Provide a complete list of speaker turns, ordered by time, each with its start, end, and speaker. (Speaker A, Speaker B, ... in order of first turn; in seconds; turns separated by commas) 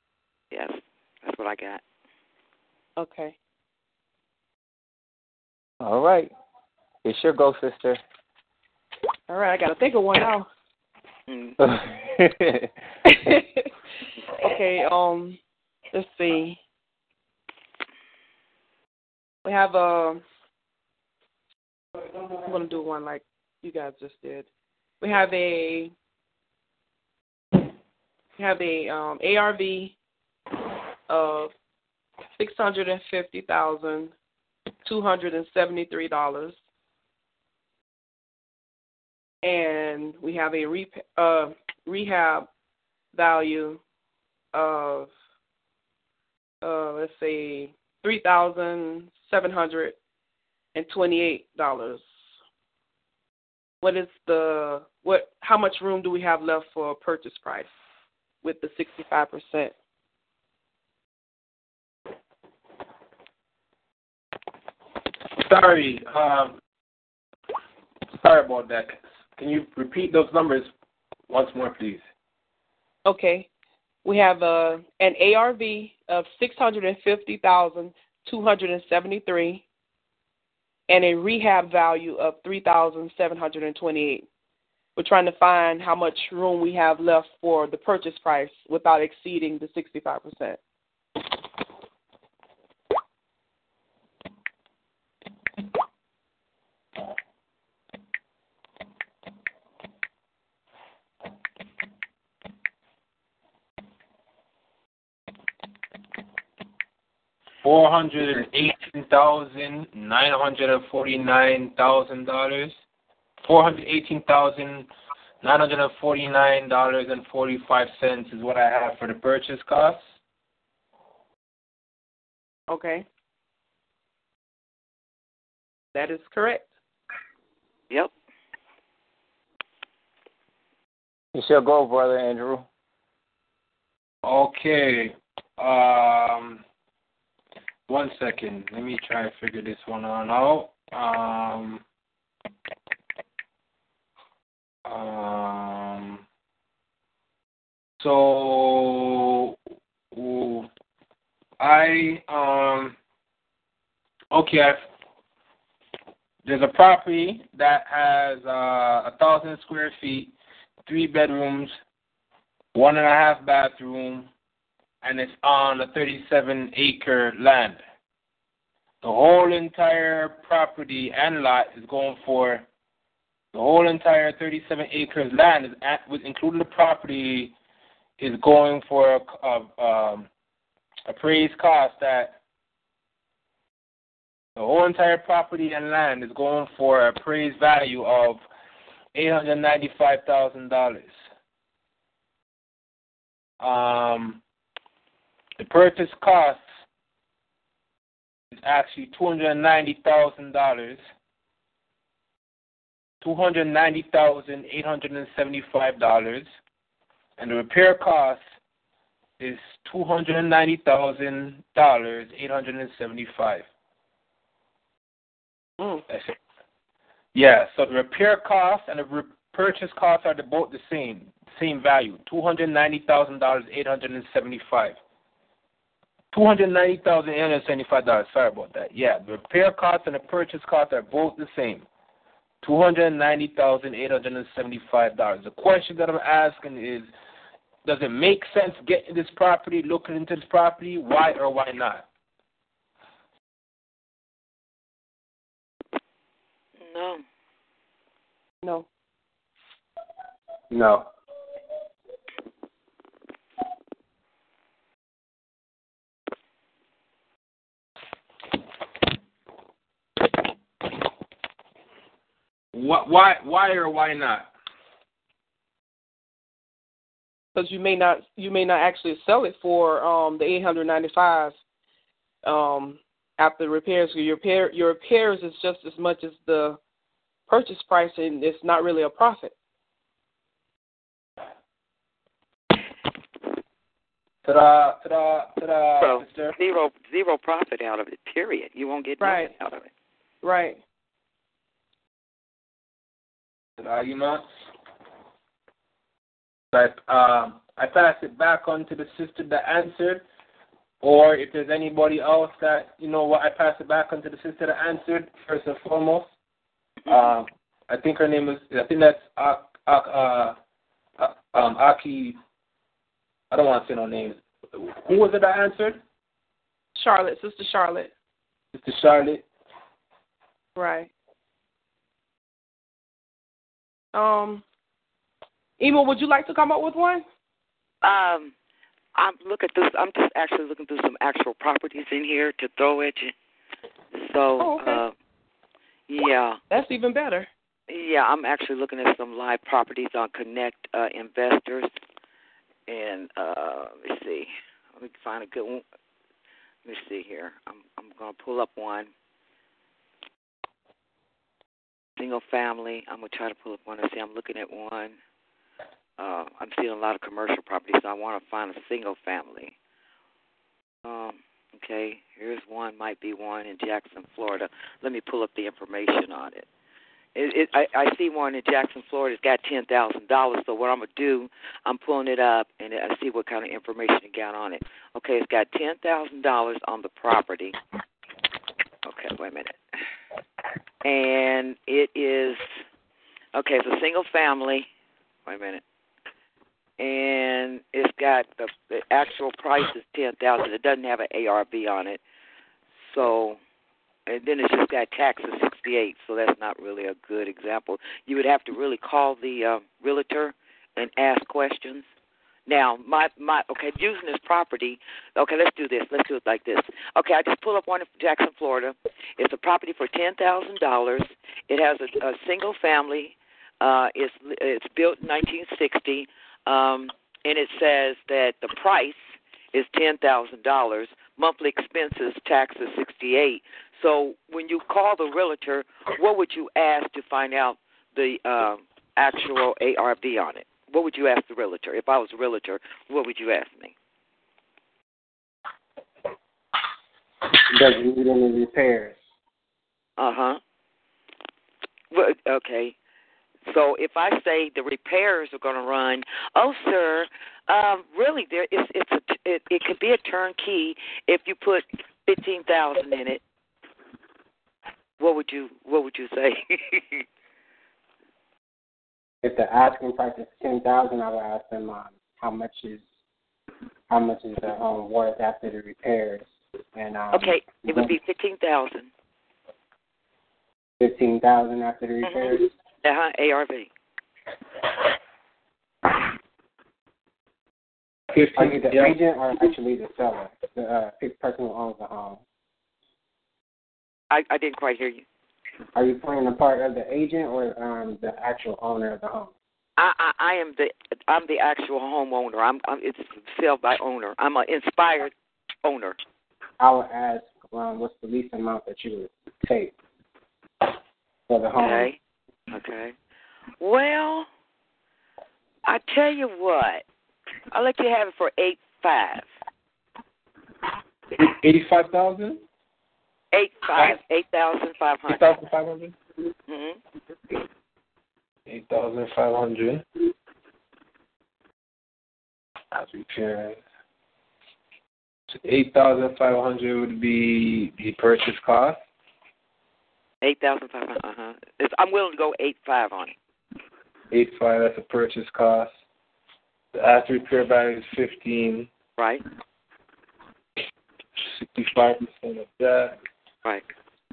Speaker A: 0.5-1.8, Speaker B: 3.0-3.3, Speaker C: 5.8-6.3, Speaker C: 7.0-8.0, Speaker B: 9.3-10.5, Speaker A: 11.3-11.6, Speaker C: 11.6-12.7, Speaker B: 13.1-13.7, Speaker B: 14.4-15.4, Speaker B: 15.9-16.6, Speaker B: 19.4-20.2, Speaker B: 22.4-24.4, Speaker B: 25.0-25.9, Speaker B: 28.4-29.9, Speaker B: 31.1-31.5, Speaker B: 32.4-34.1, Speaker B: 34.8-36.5, Speaker B: 39.4-42.5, Speaker B: 43.1-43.8, Speaker B: 44.5-45.1, Speaker B: 46.6-50.0, Speaker B: 50.7-52.1, Speaker B: 53.8-57.7, Speaker B: 58.4-59.7, Speaker D: 65.4-66.5, Speaker D: 68.2-70.7, Speaker D: 71.3-72.0, Speaker B: 73.0-73.5, Speaker B: 74.0-79.6, Speaker B: 80.9-84.2, Speaker B: 85.0-90.6, Speaker D: 107.6-112.8, Speaker D: 113.4-114.9, Speaker D: 115.4-120.0, Speaker B: 122.7-123.0, Speaker B: 125.9-126.7, Speaker C: 131.3-132.7, Speaker D: 134.2-136.6, Speaker D: 137.9-141.8, Speaker D: 144.8-146.2, Speaker D: 148.0-149.5, Speaker D: 150.1-150.7, Speaker D: 151.6-152.9, Speaker D: 154.3-154.8, Speaker D: 156.4-160.3, Speaker D: 160.9-161.8, Speaker D: 162.7-164.3, Speaker D: 165.0-167.8, Speaker D: 169.0-172.6, Speaker D: 173.5-177.5, Speaker D: 178.2-180.3, Speaker D: 181.1-182.4, Speaker D: 184.6-188.4, Speaker D: 189.1-191.1, Speaker D: 193.6-194.4, Speaker D: 195.6-196.6, Speaker D: 198.6-201.0, Speaker D: 203.2-206.5, Speaker D: 207.4-208.4, Speaker D: 209.4-213.6, Speaker D: 217.3-224.9, Speaker D: 226.3-231.8, Speaker D: 232.6-237.1, Speaker D: 237.8-242.1, Speaker A: 246.8-247.2, Speaker E: 250.7-251.1, Speaker D: 262.7-264.5, Speaker B: 267.6-271.5, Speaker B: 272.4-276.8, Speaker B: 277.5-279.5, Speaker D: 284.4-286.5, Speaker A: 286.0-289.9, Speaker B: 289.2-289.5, Speaker B: 290.4-290.8, Speaker D: 293.8-294.4, Speaker D: 296.7-300.2, Speaker D: 301.0-306.3, Speaker D: 307.1-310.6, Speaker D: 311.2-312.4, Speaker D: 313.5-316.0, Speaker B: 316.9-318.1, Speaker D: 318.7-319.4, Speaker B: 320.8-321.1, Speaker B: 324.1-324.6, Speaker B: 325.8-327.2, Speaker A: 328.0-328.5, Speaker A: 329.1-333.3, Speaker A: 334.1-335.1, Speaker B: 334.6-335.0, Speaker A: 336.1-336.6, Speaker B: 336.7-337.5, Speaker A: 337.9-341.9, Speaker A: 342.9-345.8, Speaker A: 346.8-349.1, Speaker A: 352.2-355.1, Speaker A: 356.2-359.7, Speaker A: 361.0-366.6, Speaker A: 367.3-377.8, Speaker A: 379.0-379.8, Speaker A: 381.0-382.8, Speaker A: 383.5-384.9, Speaker A: 385.4-385.8, Speaker A: 387.0-392.2, Speaker A: 393.0-393.6, Speaker A: 394.3-402.1, Speaker A: 402.7-419.2, Speaker A: 419.7-433.9, Speaker E: 437.6-439.2, Speaker A: 440.2-440.6, Speaker A: 442.1-442.9, Speaker A: 443.6-453.4, Speaker A: 455.2-457.2, Speaker E: 459.4-463.0, Speaker E: 464.1-468.0, Speaker A: 467.3-469.1, Speaker E: 471.0-472.7, Speaker A: 472.2-473.9, Speaker D: 478.3-479.2, Speaker E: 478.5-482.4, Speaker A: 484.3-485.2, Speaker E: 485.9-489.5, Speaker A: 490.0-495.3, Speaker A: 495.8-496.2, Speaker E: 496.8-499.9, Speaker E: 501.5-502.1, Speaker A: 501.8-502.1, Speaker A: 502.7-503.1, Speaker A: 503.8-504.5, Speaker A: 505.8-507.0, Speaker A: 507.7-509.4, Speaker D: 511.3-512.6, Speaker A: 513.5-515.5, Speaker D: 515.3-516.1, Speaker A: 516.7-517.0, Speaker D: 518.7-520.0, Speaker D: 522.9-523.8, Speaker D: 525.5-529.0, Speaker A: 530.4-533.3, Speaker D: 534.3-535.9, Speaker D: 536.9-538.9, Speaker A: 539.2-539.4, Speaker D: 541.4-543.2